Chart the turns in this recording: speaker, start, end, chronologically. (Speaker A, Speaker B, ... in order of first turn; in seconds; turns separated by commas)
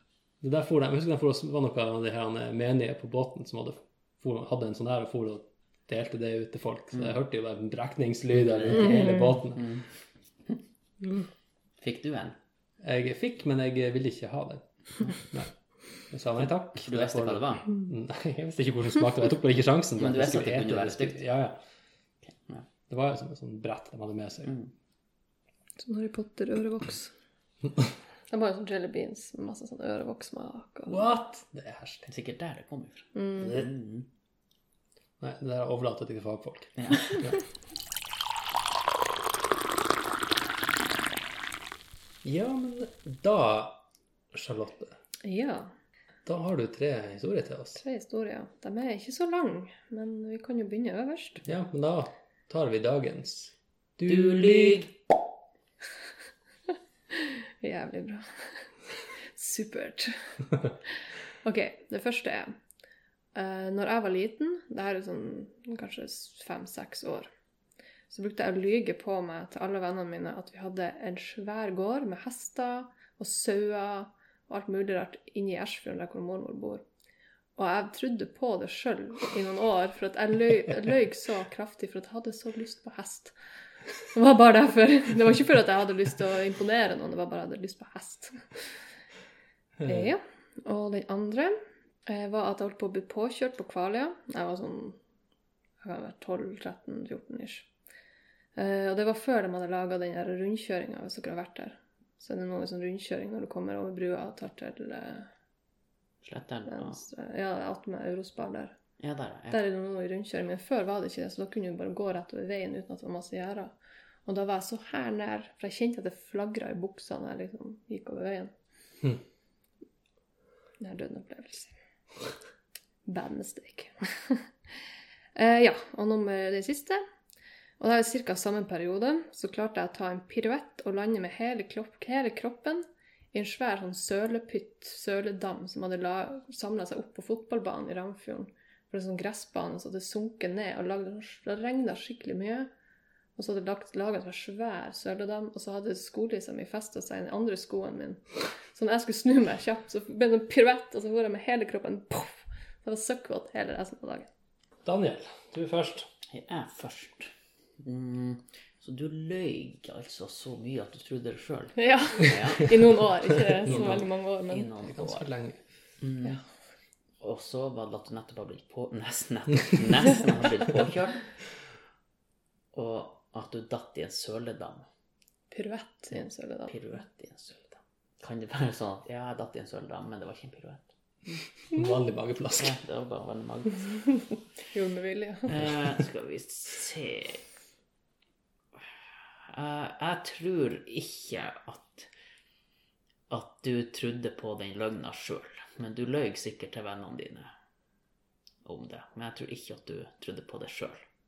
Speaker A: 0.4-9.7, Speaker B: 8.3-9.9, Speaker B: 11.8-12.4, Speaker A: 12.8-15.5, Speaker A: 16.1-21.6, Speaker B: 16.8-17.7, Speaker B: 20.0-21.2, Speaker A: 22.9-24.6, Speaker C: 25.8-27.1, Speaker C: 28.3-31.1, Speaker A: 30.9-32.1, Speaker B: 32.1-34.1, Speaker C: 33.1-33.6, Speaker A: 35.2-37.4, Speaker B: 36.8-37.2, Speaker A: 42.2-45.0, Speaker C: 45.2-45.7, Speaker A: 46.3-47.8, Speaker C: 47.8-51.4, Speaker A: 51.5-54.8, Speaker B: 54.1-55.0, Speaker C: 57.1-60.2, Speaker C: 61.4-62.6, Speaker C: 63.4-67.3, Speaker C: 68.1-76.8, Speaker C: 77.6-83.3, Speaker C: 84.1-88.4, Speaker C: 89.8-91.5, Speaker C: 92.1-95.0, Speaker C: 95.8-97.7, Speaker C: 98.6-105.3, Speaker B: 106.2-107.0, Speaker C: 106.7-108.8, Speaker B: 109.0-109.6, Speaker C: 109.5-113.7, Speaker C: 114.3-118.5, Speaker C: 120.8-121.7, Speaker C: 123.1-124.5, Speaker C: 125.3-127.0, Speaker C: 127.8-142.7, Speaker C: 143.4-154.3, Speaker A: 154.8-156.1, Speaker B: 156.3-165.3, Speaker C: 161.8-164.7, Speaker A: 163.7-163.9, Speaker A: 164.9-165.6, Speaker B: 166.0-166.4, Speaker B: 167.2-171.2, Speaker B: 172.7-174.9, Speaker C: 175.5-176.7, Speaker B: 176.7-181.4, Speaker A: 181.7-182.8, Speaker B: 182.6-184.0, Speaker C: 184.7-185.6, Speaker B: 185.5-187.4, Speaker B: 189.5-192.1, Speaker B: 193.3-197.5, Speaker B: 198.7-201.0